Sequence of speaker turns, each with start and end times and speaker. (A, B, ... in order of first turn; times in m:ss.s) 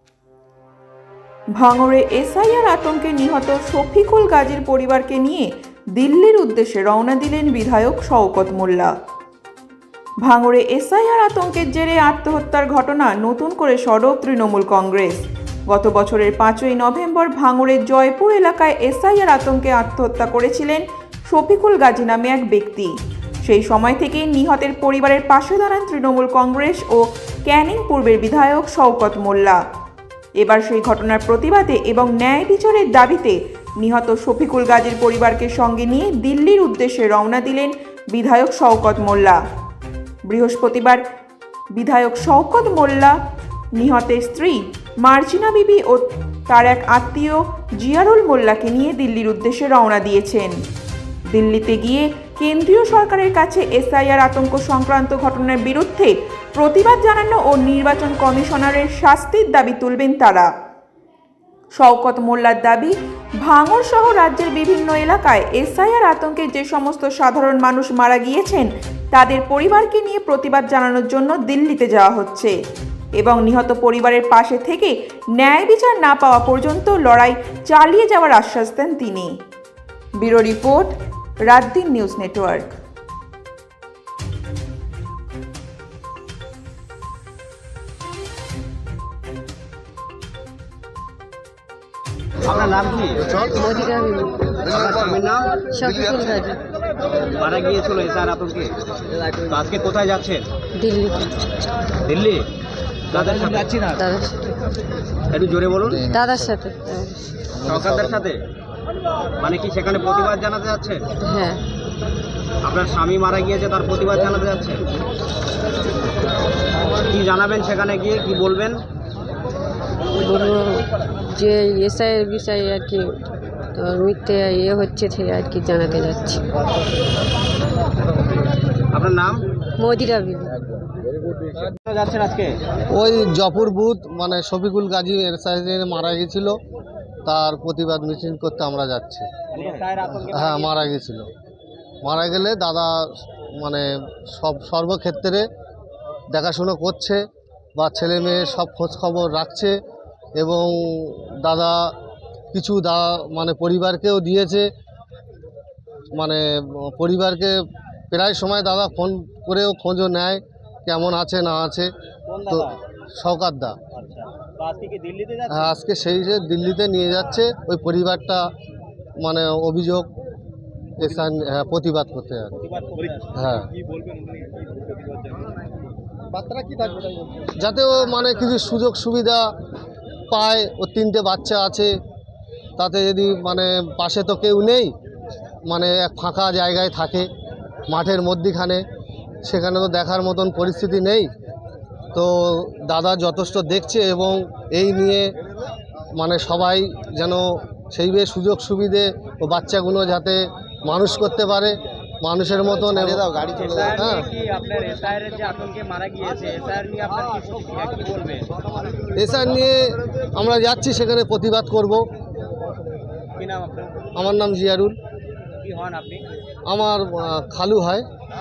0:01.6-0:08.9 A
0:10.2-0:22.9 A
0:23.4-0:29.6 A
0:30.4-0:39.4 A
0:40.3-0:41.0 A
0:41.8-0:43.2 A
0:43.8-0:50.5 A
0:51.3-1:00.5 A
1:01.8-1:12.5 A
1:13.2-1:19.3 A
1:20.2-1:20.9 A
1:21.5-1:22.7 A
1:32.4-1:33.3 B
1:33.5-1:34.6 C
1:34.7-1:35.6 B
1:35.7-1:36.6 C
1:37.3-1:38.7 B
1:39.4-1:40.5 B
1:40.8-1:41.3 C
1:42.1-1:42.5 B
1:43.1-1:43.9 B
1:43.9-1:44.6 C
1:45.3-1:46.1 B
1:46.1-1:47.4 C
1:47.6-1:48.4 B
1:49.4-1:51.0 B
1:51.2-1:51.6 C
1:52.6-1:54.8 B
1:57.1-1:58.8 B
2:00.2-2:03.2 C
2:03.7-2:06.4 C
2:08.9-2:09.4 B
2:09.8-2:10.6 C
2:11.8-2:12.6 B
2:12.9-2:16.6 D
2:17.3-2:19.3 D
2:19.5-2:20.9 B
2:20.3-2:21.3 D
2:22.0-2:23.0 D
2:23.6-2:25.5 D
2:26.3-2:27.2 D
2:27.8-2:29.8 D
2:30.4-2:31.9 D
2:32.5-2:34.7 D
2:36.2-2:37.6 D
2:38.1-2:41.9 D
2:42.3-2:42.8 B
2:42.5-2:43.8 D
2:43.9-2:45.7 B
2:45.5-2:48.4 D
2:49.2-2:50.1 D
2:51.0-2:52.5 D
2:52.6-2:55.6 B
2:53.3-2:53.7 D
2:57.6-2:59.4 D
3:00.3-3:01.9 D
3:02.8-3:04.9 D
3:05.7-3:07.3 D
3:07.9-3:08.8 D
3:09.4-3:11.3 D
3:12.1-3:15.3 D
3:16.2-3:24.3 D
3:23.0-3:28.6 B
3:29.2-3:32.0 D
3:33.4-3:34.1 B
3:34.2-3:35.0 D
3:35.6-3:36.2 B
3:36.7-3:38.0 D